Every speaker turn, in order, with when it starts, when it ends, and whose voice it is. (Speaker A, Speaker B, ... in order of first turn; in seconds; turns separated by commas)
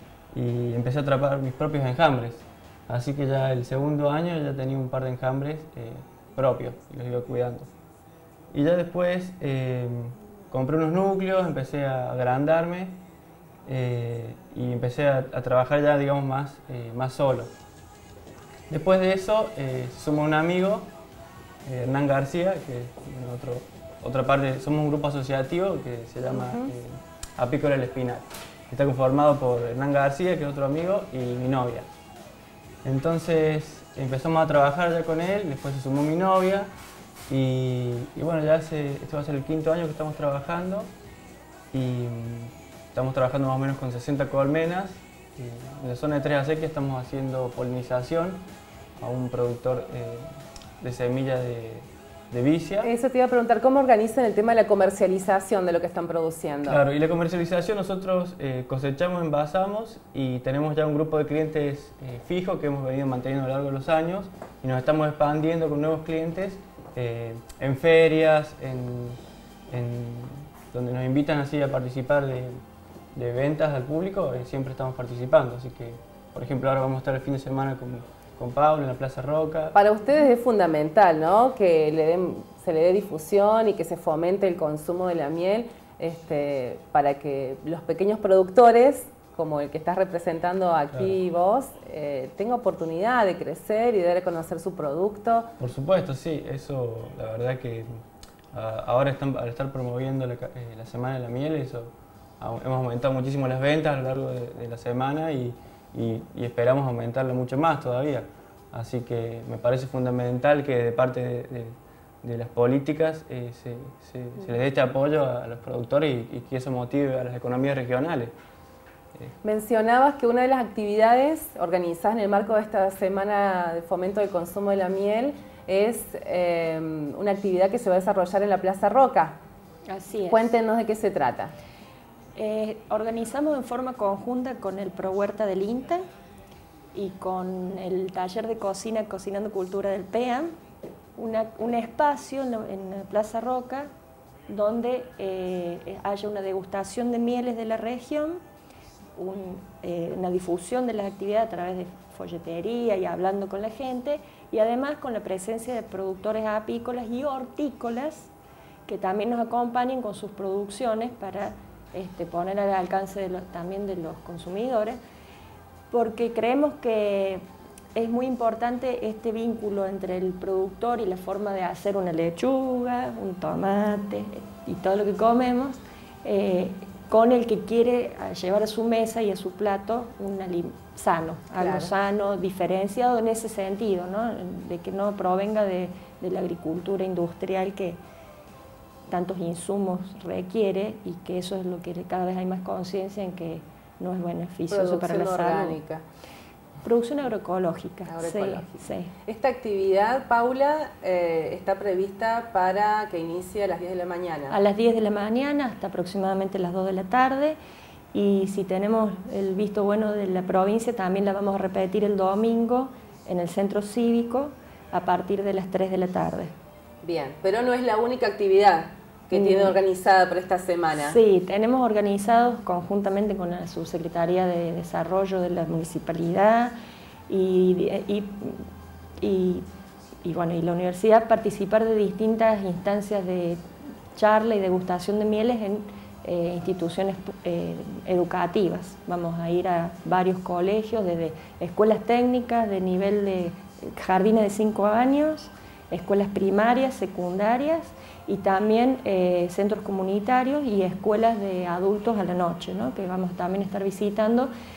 Speaker A: 0.3-7.7, Speaker A: 8.5-13.0, Speaker A: 13.7-17.5, Speaker A: 18.7-20.9, Speaker A: 21.6-31.9, Speaker B: 26.3-26.7, Speaker A: 32.8-36.7, Speaker A: 37.3-40.9, Speaker A: 41.7-48.4, Speaker A: 49.0-50.2, Speaker A: 50.8-52.9, Speaker B: 52.8-56.8, Speaker A: 56.7-69.2, Speaker A: 69.7-72.6, Speaker A: 73.1-79.8, Speaker B: 79.7-95.5, Speaker A: 95.6-97.9, Speaker A: 98.5-118.3, Speaker B: 119.4-129.4, Speaker C: 129.9-130.4, Speaker B: 130.3-131.5, Speaker C: 132.3-136.0, Speaker C: 136.9-140.5, Speaker C: 141.2-143.9, Speaker C: 144.5-148.4, Speaker C: 149.2-158.3, Speaker C: 158.9-165.0, Speaker C: 165.9-188.0, Speaker B: 181.6-181.9, Speaker C: 189.1-195.8, Speaker B: 194.7-196.0, Speaker C: 196.8-199.1, Speaker B: 198.1-204.6, Speaker C: 204.5-207.6, Speaker C: 208.1-216.5, Speaker B: 217.0-221.2, Speaker C: 219.3-219.8, Speaker C: 221.0-226.7, Speaker C: 227.3-228.6, Speaker C: 229.2-229.6, Speaker C: 230.2-233.6, Speaker C: 234.2-254.5